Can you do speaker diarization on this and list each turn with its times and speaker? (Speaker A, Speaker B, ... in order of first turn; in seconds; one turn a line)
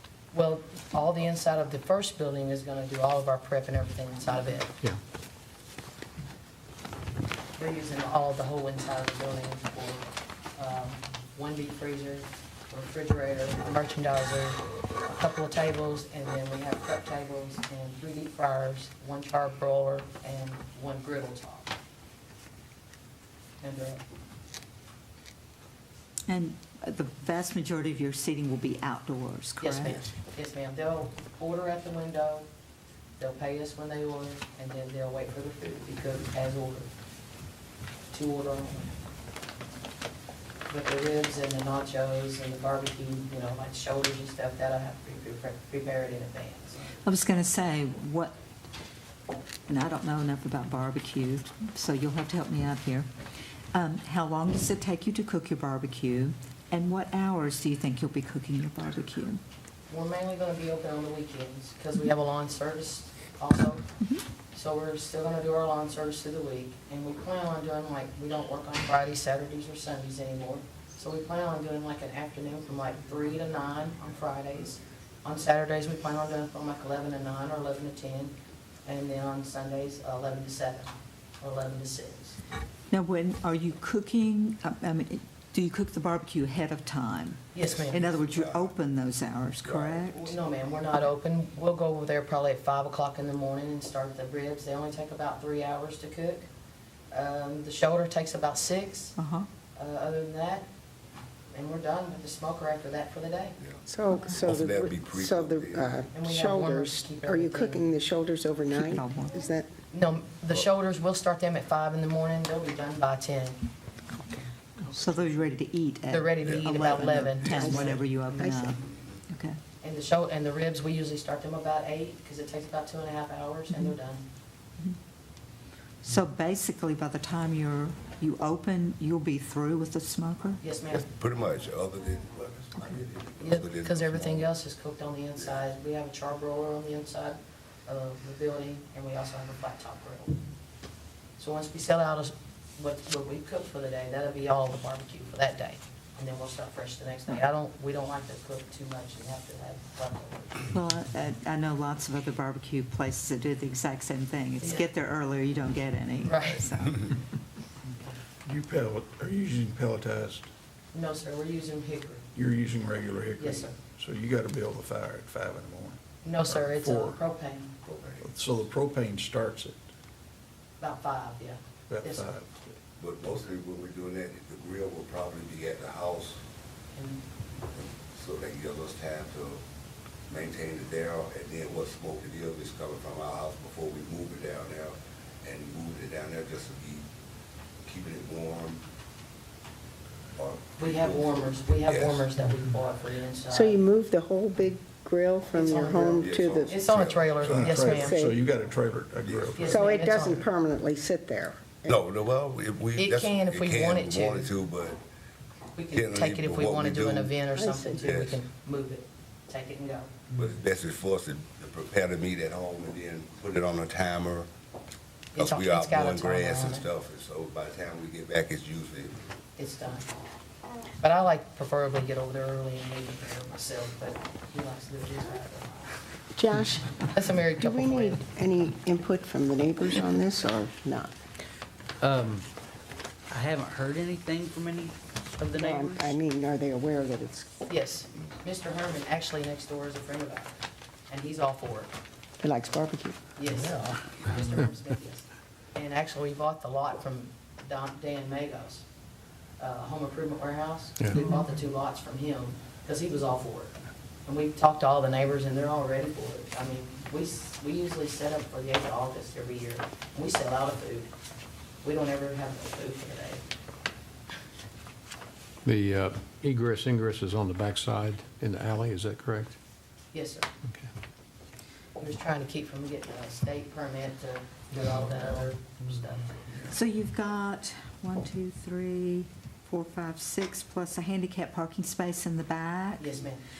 Speaker A: 0.3-4.7
Speaker A: 7.6-21.7
Speaker A: 23.6-24.0
Speaker B: 26.3-30.0
Speaker A: 29.6-32.5
Speaker A: 33.2-36.9
Speaker A: 38.1-38.9
Speaker A: 40.7-46.8
Speaker B: 47.0-48.3
Speaker B: 49.7-53.1
Speaker B: 53.7-59.4
Speaker A: 59.9-63.8
Speaker A: 64.5-78.3
Speaker A: 78.8-82.4
Speaker B: 82.9-90.3
Speaker A: 87.5-88.0
Speaker C: 87.6-88.7
Speaker C: 89.6-90.3
Speaker A: 90.2-96.5
Speaker A: 97.1-99.2
Speaker B: 99.2-99.5
Speaker A: 99.7-100.7
Speaker A: 101.5-103.6
Speaker D: 103.8-109.7
Speaker C: 104.4-106.0
Speaker A: 106.1-107.9
Speaker B: 108.7-109.3
Speaker A: 109.9-113.6
Speaker B: 114.9-119.6
Speaker A: 116.1-118.0
Speaker C: 116.4-117.9
Speaker D: 117.5-118.7
Speaker A: 119.8-124.2
Speaker B: 126.0-130.6
Speaker A: 130.6-131.1
Speaker C: 130.9-134.5
Speaker A: 133.4-140.4
Speaker A: 141.4-150.7
Speaker B: 150.7-157.2
Speaker A: 154.6-154.9
Speaker A: 156.2-156.6
Speaker E: 158.4-160.5
Speaker A: 160.9-162.2
Speaker E: 162.3-167.2
Speaker A: 163.4-163.7
Speaker A: 166.2-167.7
Speaker C: 167.8-168.2
Speaker E: 168.2-169.8
Speaker A: 170.8-172.3
Speaker E: 171.9-172.8
Speaker C: 173.0-176.4
Speaker A: 176.9-177.2
Speaker C: 177.7-179.6
Speaker C: 180.3-187.1
Speaker C: 187.8-188.8
Speaker C: 190.3-192.3
Speaker A: 190.8-193.8
Speaker D: 193.5-196.8
Speaker A: 195.5-198.2
Speaker C: 195.7-197.7
Speaker E: 197.4-199.7
Speaker D: 197.7-198.4
Speaker C: 199.3-199.9
Speaker A: 199.5-200.4
Speaker D: 199.7-202.0
Speaker C: 201.9-205.0
Speaker A: 203.0-204.5
Speaker A: 205.8-210.1
Speaker C: 205.9-208.4
Speaker D: 207.5-208.0
Speaker C: 210.3-214.5
Speaker A: 215.3-216.9
Speaker C: 215.3-219.1
Speaker A: 219.6-220.1
Speaker A: 221.0-225.9
Speaker D: 226.3-226.9
Speaker A: 227.0-228.2
Speaker D: 227.6-231.1
Speaker F: 232.0-232.5
Speaker F: 233.3-235.7
Speaker A: 235.5-235.8
Speaker D: 235.6-237.5
Speaker A: 237.7-240.6
Speaker A: 241.1-241.9
Speaker D: 242.4-243.2
Speaker A: 243.4-248.8
Speaker A: 249.6-253.7
Speaker B: 251.1-251.5
Speaker A: 254.2-261.1
Speaker A: 261.8-263.4
Speaker G: 265.6-269.6
Speaker A: 270.1-270.5
Speaker G: 270.6-270.9
Speaker A: 272.0-276.5
Speaker B: 276.7-283.3
Speaker A: 283.0-283.4